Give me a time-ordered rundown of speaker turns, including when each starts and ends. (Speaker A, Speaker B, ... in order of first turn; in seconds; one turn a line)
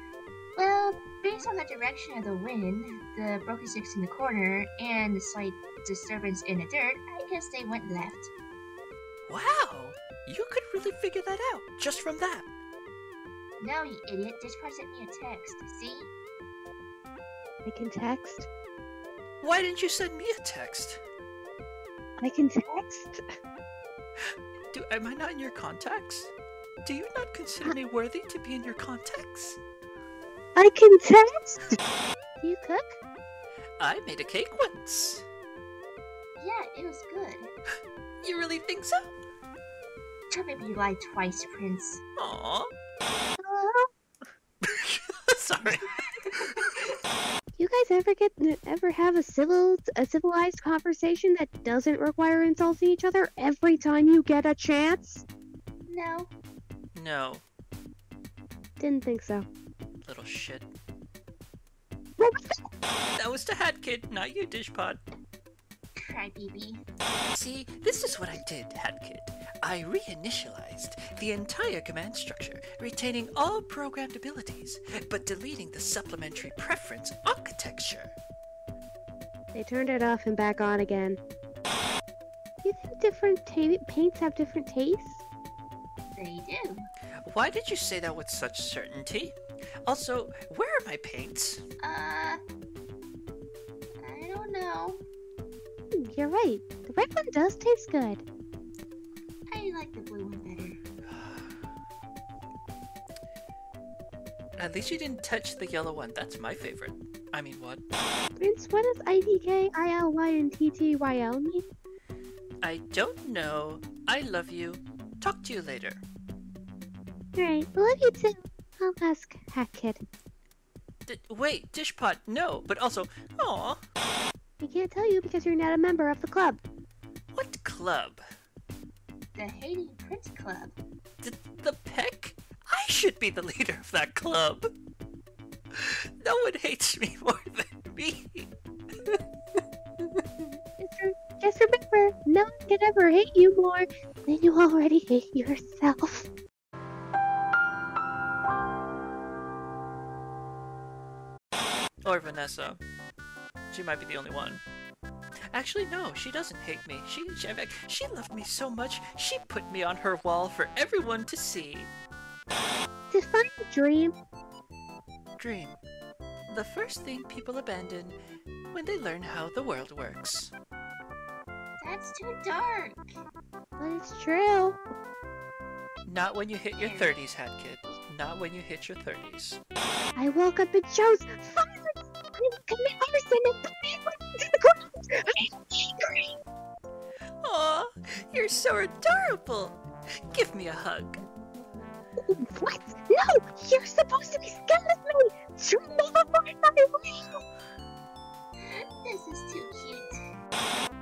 Speaker A: 0.6-8.3
Speaker B: 9.3-12.5
Speaker A: 13.6-16.1
Speaker C: 17.6-18.5
Speaker B: 19.4-21.0
Speaker C: 22.2-23.2
Speaker B: 24.2-26.3
Speaker B: 26.8-29.6
Speaker C: 30.6-31.8
Speaker C: 32.4-33.0
Speaker B: 33.8-35.2
Speaker A: 36.4-37.5
Speaker B: 38.2-39.1
Speaker A: 40.3-42.0
Speaker B: 42.2-42.7
Speaker C: 43.4-43.9
Speaker B: 44.6-45.9
Speaker C: 47.6-55.2
Speaker A: 55.9-56.3
Speaker B: 56.9-57.4
Speaker C: 58.8-59.5
Speaker B: 60.0-60.7
Speaker C: 62.2-62.6
Speaker B: 63.1-65.0
Speaker A: 66.0-66.8
Speaker B: 67.3-78.1
Speaker C: 79.5-81.2
Speaker C: 82.6-85.2
Speaker A: 86.1-86.9
Speaker B: 87.2-91.6
Speaker A: 91.8-92.4
Speaker A: 94.0-95.0
Speaker C: 96.0-98.2
Speaker A: 99.5-100.8
Speaker B: 101.1-101.5
Speaker B: 104.6-107.8
Speaker C: 108.4-111.7
Speaker B: 112.6-116.0
Speaker C: 117.3-120.0
Speaker B: 121.0-123.8
Speaker C: 124.6-126.6
Speaker B: 127.3-128.2
Speaker A: 129.3-130.7
Speaker B: 131.2-134.7
Speaker B: 135.7-138.5
Speaker C: 140.8-146.3
Speaker B: 152.0-152.8
Speaker B: 153.7-154.6
Speaker B: 155.5-161.9
Speaker C: 163.1-164.1
Speaker B: 165.4-165.8
Speaker B: 166.5-168.2
Speaker B: 168.7-170.5
Speaker A: 171.8-173.1
Speaker C: 173.8-174.8
Speaker B: 176.1-179.6
Speaker A: 176.8-177.2
Speaker C: 180.2-186.3
Speaker B: 187.4-189.8
Speaker B: 190.3-191.2
Speaker C: 192.2-197.4
Speaker A: 198.6-200.3